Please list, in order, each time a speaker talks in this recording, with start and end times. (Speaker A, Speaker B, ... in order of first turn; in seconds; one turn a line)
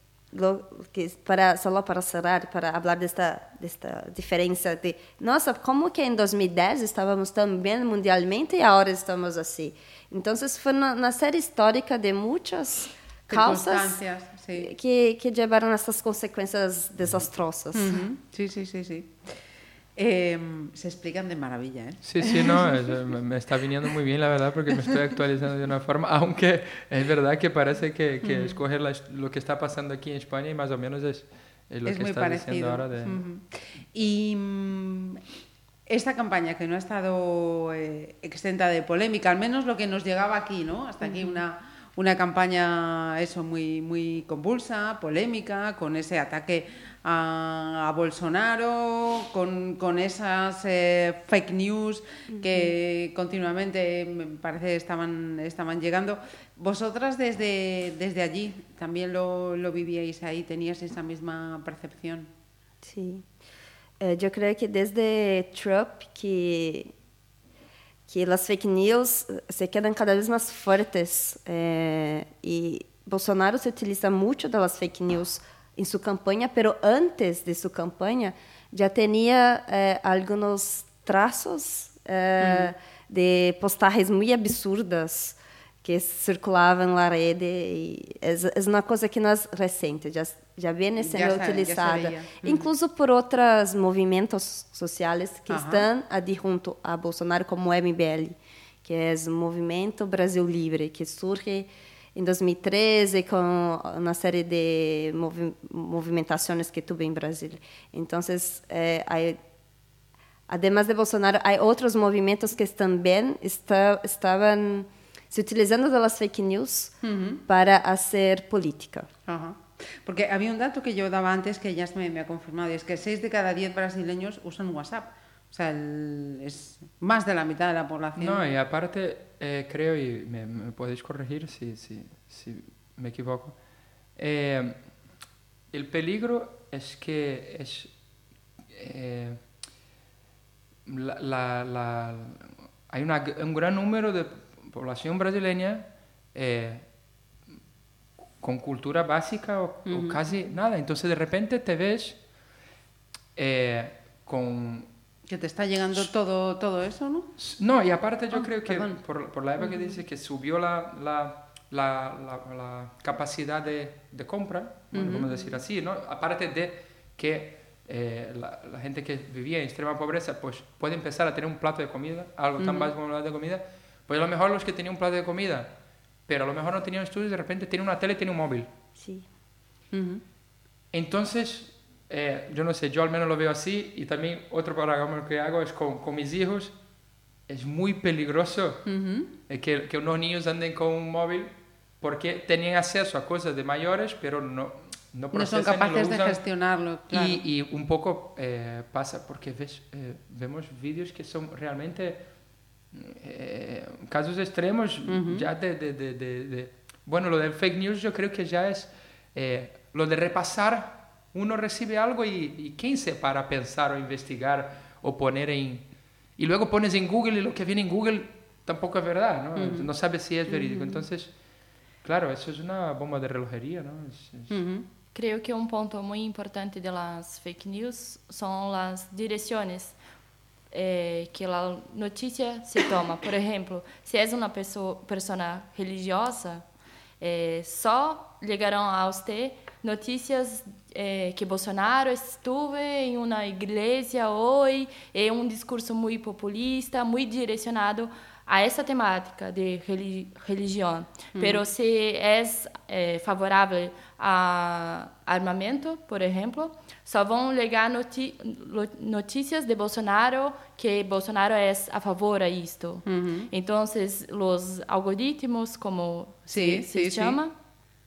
Speaker A: 0.3-14.0
Speaker B: 13.3-14.7
Speaker A: 14.6-18.0
Speaker B: 17.7-19.3
Speaker B: 19.9-22.8
Speaker C: 22.0-33.2
Speaker B: 28.2-28.6
Speaker B: 31.9-35.2
Speaker B: 35.9-62.3
Speaker A: 41.1-41.3
Speaker A: 52.3-52.7
Speaker A: 62.8-63.2
Speaker A: 64.0-66.9
Speaker A: 68.1-109.4
Speaker B: 82.4-82.7
Speaker B: 91.0-92.6
Speaker B: 95.5-95.8
Speaker A: 110.5-116.9
Speaker B: 117.0-117.4
Speaker A: 117.5-119.1
Speaker B: 119.3-128.5
Speaker C: 128.2-133.6
Speaker C: 134.2-134.9
Speaker C: 135.7-137.9
Speaker C: 138.7-139.4
Speaker C: 140.8-146.8
Speaker C: 148.4-152.2
Speaker B: 149.9-150.2
Speaker C: 153.3-154.9
Speaker B: 155.3-157.3
Speaker C: 157.4-175.7
Speaker B: 158.3-159.0
Speaker B: 159.6-160.0
Speaker B: 164.9-165.5
Speaker B: 172.6-172.9
Speaker C: 176.3-178.7
Speaker A: 179.0-179.2
Speaker B: 179.9-180.2
Speaker C: 180.9-186.7
Speaker C: 187.5-188.8
Speaker B: 188.9-189.3
Speaker C: 189.5-196.4
Speaker B: 195.3-197.4
Speaker C: 197.1-202.2
Speaker C: 202.9-215.8
Speaker B: 205.1-205.5
Speaker C: 216.4-221.3
Speaker B: 219.6-219.9
Speaker C: 222.0-224.6
Speaker B: 224.5-224.8
Speaker D: 225.1-229.9
Speaker D: 230.7-236.6
Speaker D: 237.2-267.5
Speaker B: 251.3-251.6
Speaker B: 263.1-263.5
Speaker B: 266.5-267.4